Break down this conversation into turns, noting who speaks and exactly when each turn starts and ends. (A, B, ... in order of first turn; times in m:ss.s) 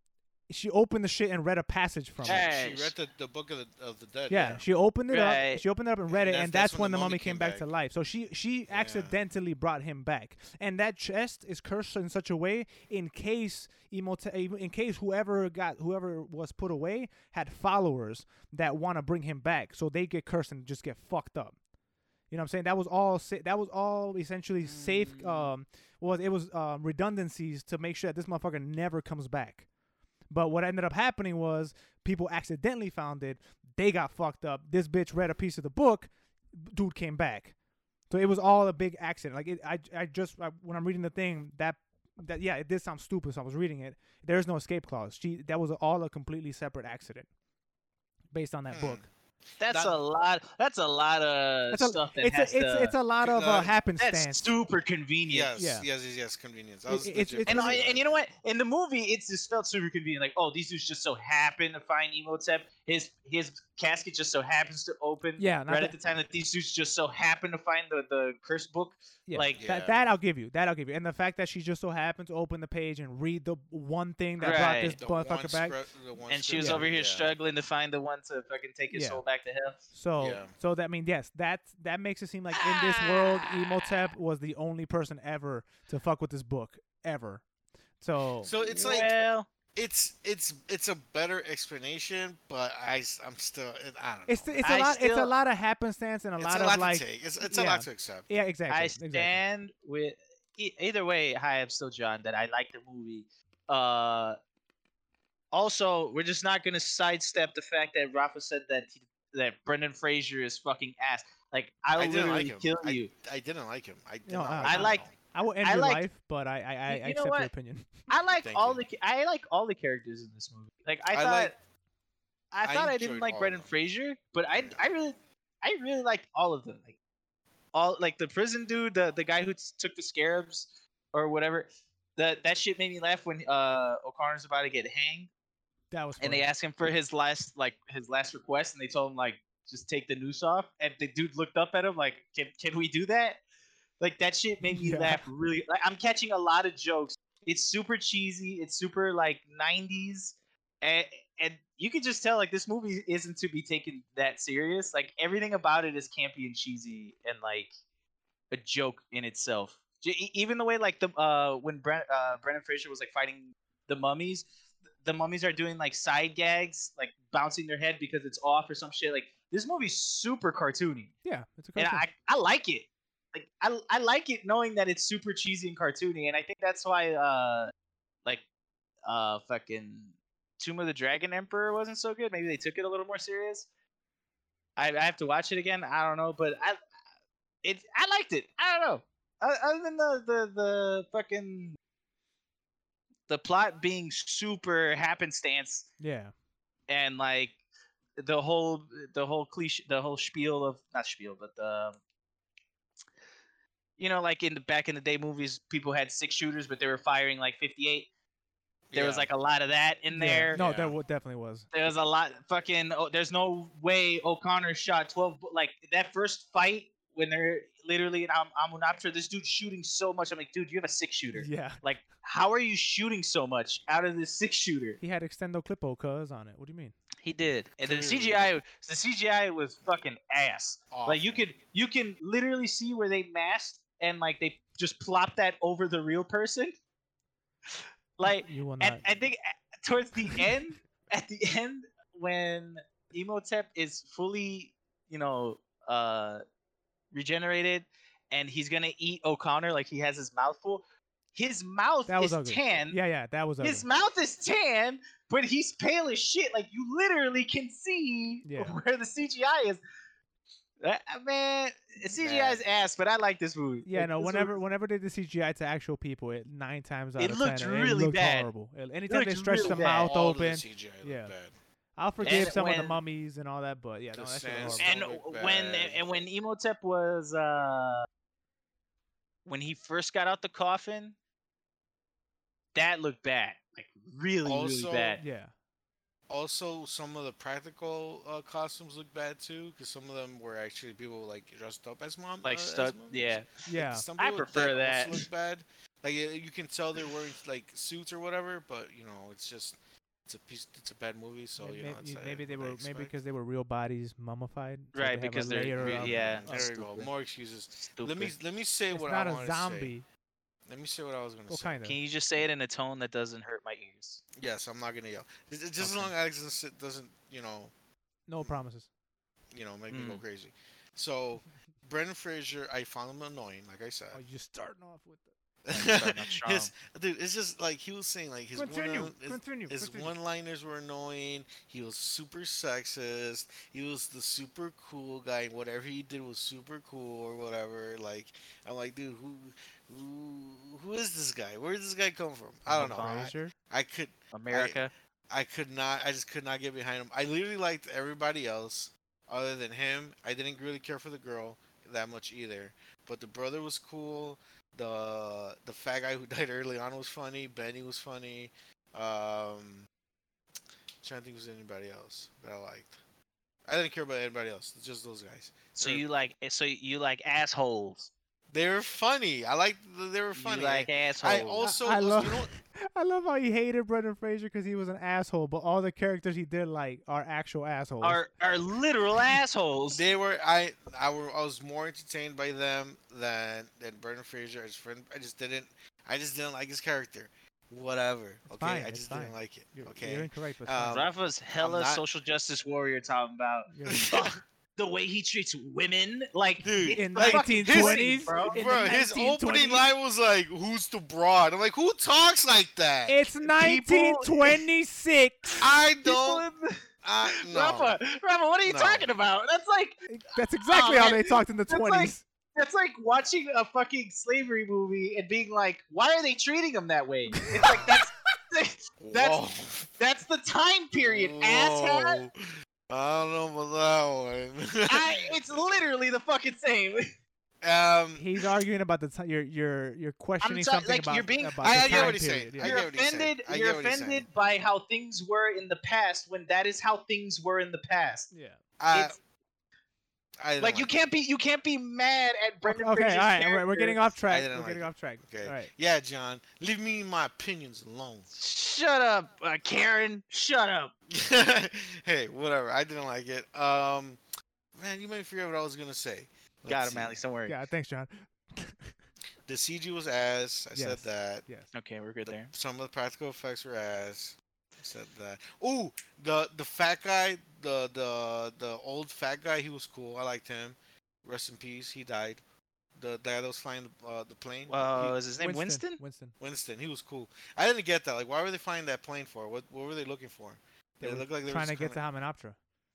0:00.5-0:02.4 A
0:02.2-0:04.6 B
0:02.2-0:02.9 C
0:04.3-0:21.6 A
0:05.1-0:05.6 C
0:06.1-0:07.6 B
0:08.7-0:09.2 B
0:22.3-0:29.6 A
0:24.7-0:25.5 C
0:30.3-0:37.5 A
0:38.1-0:47.3 A
0:48.3-0:49.0 A
0:48.7-0:49.1 B
0:49.6-0:52.9 C
0:49.6-0:50.0 B
0:51.7-0:54.4 A
0:53.2-0:53.7 B
0:54.0-0:55.5 C
0:55.3-0:58.0 B
0:55.6-0:55.8 A
0:56.9-0:57.8 A
0:57.5-1:09.6 C
1:05.4-1:05.9 A
1:09.3-1:15.8 A
1:09.6-1:10.0 B
1:14.4-1:15.0 C
1:14.4-1:17.4 B
1:16.3-1:19.8 C
1:16.6-1:16.8 A
1:18.9-1:19.2 A
1:19.9-1:27.4 A
1:20.2-1:20.5 B
1:22.6-1:23.4 C
1:28.0-1:28.5 A
1:28.4-1:29.1 B
1:28.6-1:29.5 C
1:29.7-1:34.8 B
1:34.3-1:39.4 A
1:34.6-1:35.3 C
1:36.4-1:38.3 B
1:38.7-1:44.4 C
1:45.5-1:53.1 C
1:51.9-1:55.1 B
1:54.3-1:58.0 A
1:54.6-1:55.1 C
1:55.6-1:56.0 C
1:56.9-1:57.5 C
1:58.1-2:01.5 C
1:58.4-1:58.8 B
2:01.1-2:01.5 B
2:02.5-2:07.0 C
2:02.6-2:03.7 B
2:04.5-2:04.8 B
2:07.7-2:15.3 C
2:15.9-2:16.5 A
2:16.2-2:23.4 C
2:24.0-2:37.7 C
2:24.6-2:25.2 A
2:38.5-2:44.5 C
2:45.0-2:51.1 C
2:51.2-2:52.1 A
2:51.8-2:57.7 C
2:59.0-3:03.7 C
3:04.8-3:06.8 C
3:07.6-3:11.8 C
3:13.3-3:15.9 C
3:16.0-3:16.3 A
3:16.9-3:17.6 C
3:18.2-3:22.0 C
3:24.0-3:28.1 C
3:28.9-3:29.3 B
3:28.9-3:30.6 C
3:30.1-3:31.6 A
3:30.5-3:30.9 B
3:31.7-3:45.0 C
3:41.3-3:41.8 A
3:45.0-3:46.9 A
3:47.2-3:56.8 C
3:47.8-3:48.5 B
3:50.9-3:51.5 B
3:58.2-4:06.4 C
3:58.2-3:59.0 A
4:07.1-4:10.8 C
4:11.3-4:13.0 C
4:12.1-4:13.8 A
4:13.6-4:19.8 C
4:18.4-4:18.8 A
4:20.8-4:24.6 C
4:22.1-4:22.6 B
4:23.8-4:31.3 A
4:27.2-4:28.5 C
4:29.1-4:30.1 C
4:29.6-4:31.5 B
4:32.0-4:34.9 A
4:32.2-4:33.0 C
4:34.1-4:36.0 B
4:34.7-4:38.0 C
4:39.4-4:41.2 C
4:42.7-4:45.2 C
4:44.4-4:45.2 B
4:45.2-4:45.5 A
4:46.3-5:03.1 B
4:52.4-4:53.6 C
4:53.7-4:54.0 A
4:54.2-4:55.2 C
5:01.6-5:06.8 A
5:04.9-5:07.1 C
5:05.7-5:09.9 B
5:07.9-5:08.3 C
5:08.9-5:10.0 A
5:10.7-5:11.8 B
5:11.5-5:12.0 A
5:11.8-5:14.2 C
5:14.4-5:17.7 B
5:15.8-5:16.0 A
5:18.3-5:18.9 A
5:19.5-5:24.2 B
5:19.9-5:20.2 C
5:24.1-5:25.3 A
5:25.6-5:59.9 B
5:25.7-5:26.7 C
5:28.5-5:30.1 A
5:42.6-5:43.5 A
5:42.8-5:43.3 C
5:44.3-5:44.9 C
6:01.0-6:03.0 B
6:03.7-6:06.0 B
6:05.8-6:08.1 C
6:08.5-6:12.5 B
6:10.3-6:11.6 C
6:11.6-6:18.2 A
6:18.0-6:20.0 C
6:19.9-6:32.0 B
6:28.5-6:31.0 A
6:30.9-6:38.6 C
6:33.7-6:34.1 A
6:33.9-6:34.3 B
6:36.6-6:43.7 B
6:37.0-6:39.8 A
6:43.1-6:45.6 A
6:43.6-6:44.6 C
6:45.6-6:46.4 B
6:45.6-6:50.0 C
6:47.0-6:48.0 B
6:48.6-6:49.1 B
6:50.1-6:52.2 A
6:50.7-6:59.4 C
6:57.3-6:57.6 A
6:57.6-6:58.0 B
6:59.0-6:59.9 B
7:00.0-7:02.2 C
7:01.0-7:02.3 B
7:02.9-7:05.4 B
7:04.9-7:07.1 C
7:07.6-7:08.3 B
7:08.2-7:12.8 A
7:10.4-7:18.3 C
7:11.6-7:14.3 B
7:18.3-7:18.6 A
7:18.8-7:19.2 B
7:20.4-7:20.9 B
7:20.6-7:24.0 C
7:22.6-7:25.7 A
7:24.3-7:28.3 B
7:28.3-7:30.9 C
7:31.1-7:34.2 B
7:34.7-7:37.2 B
7:36.7-7:37.5 C
7:37.4-7:38.9 A
7:39.5-7:41.4 B
7:40.7-7:41.7 A
7:41.7-7:42.5 C
7:42.3-7:52.4 B
7:53.0-7:55.2 B
7:54.7-7:56.0 C
7:55.4-7:56.3 A
7:56.4-8:02.0 B
8:01.0-8:02.6 A